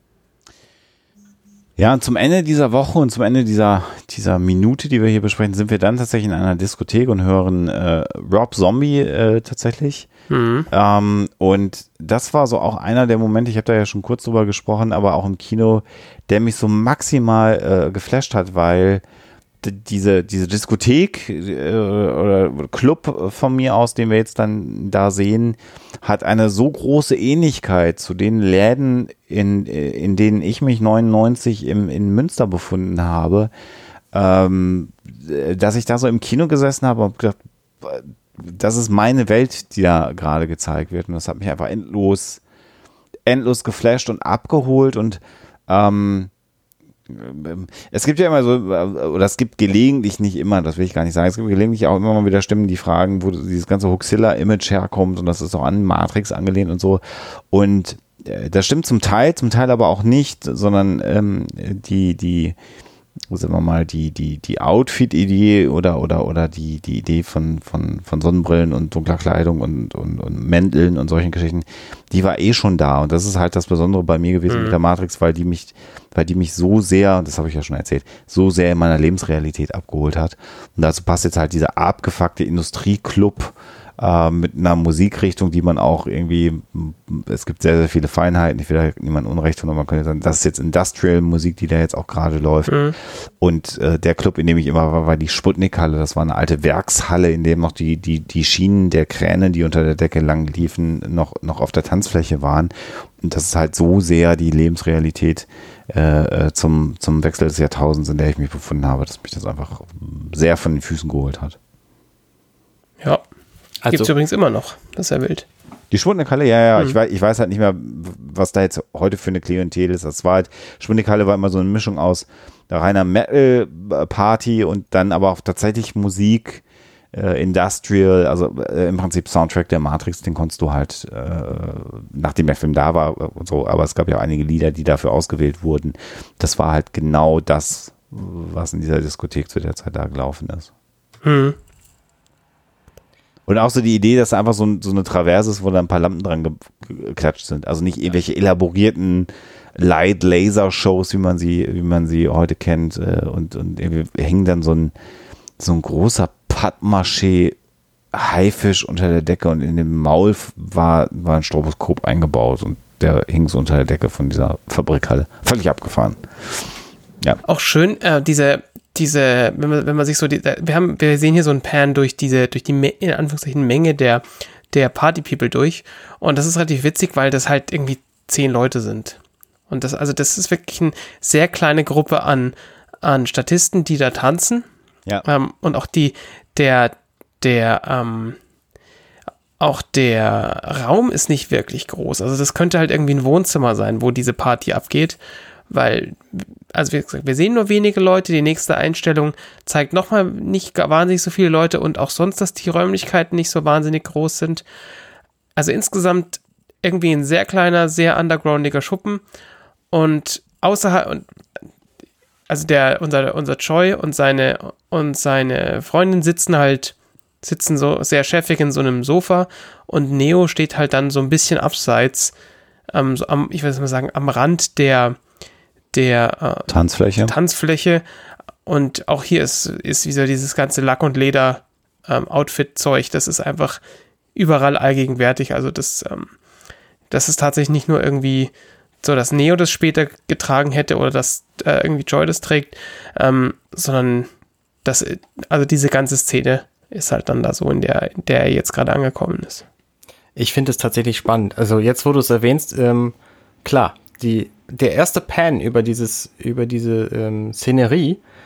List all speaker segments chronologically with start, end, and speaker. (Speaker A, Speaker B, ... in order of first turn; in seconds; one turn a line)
Speaker A: 1.8-10.1
Speaker B: 10.3-10.7
Speaker A: 10.7-19.0
Speaker A: 19.6-33.5
Speaker A: 34.1-42.4
Speaker A: 43.3-46.3
Speaker A: 47.1-62.5
Speaker A: 63.3-92.8
Speaker B: 74.5-74.8
Speaker B: 92.7-92.9
Speaker A: 93.4-111.6
Speaker C: 113.8-114.1
Speaker B: 113.9-115.5
Speaker A: 115.9-140.7
Speaker B: 141.2-141.6
Speaker A: 143.5-154.9
Speaker A: 155.6-157.6
Speaker A: 158.1-166.2
Speaker B: 167.4-179.2
Speaker B: 179.7-184.6
Speaker B: 185.2-188.4
Speaker B: 189.6-195.2
Speaker B: 195.7-204.6
Speaker B: 205.6-209.2
Speaker B: 209.9-211.3
Speaker B: 212.5-222.3
Speaker B: 222.9-225.2
Speaker B: 225.9-228.0
Speaker A: 226.7-227.3
Speaker B: 228.7-233.8
Speaker B: 234.3-236.3
Speaker B: 237.1-238.5
Speaker B: 239.0-244.3
Speaker B: 244.8-249.6
Speaker C: 250.3-258.2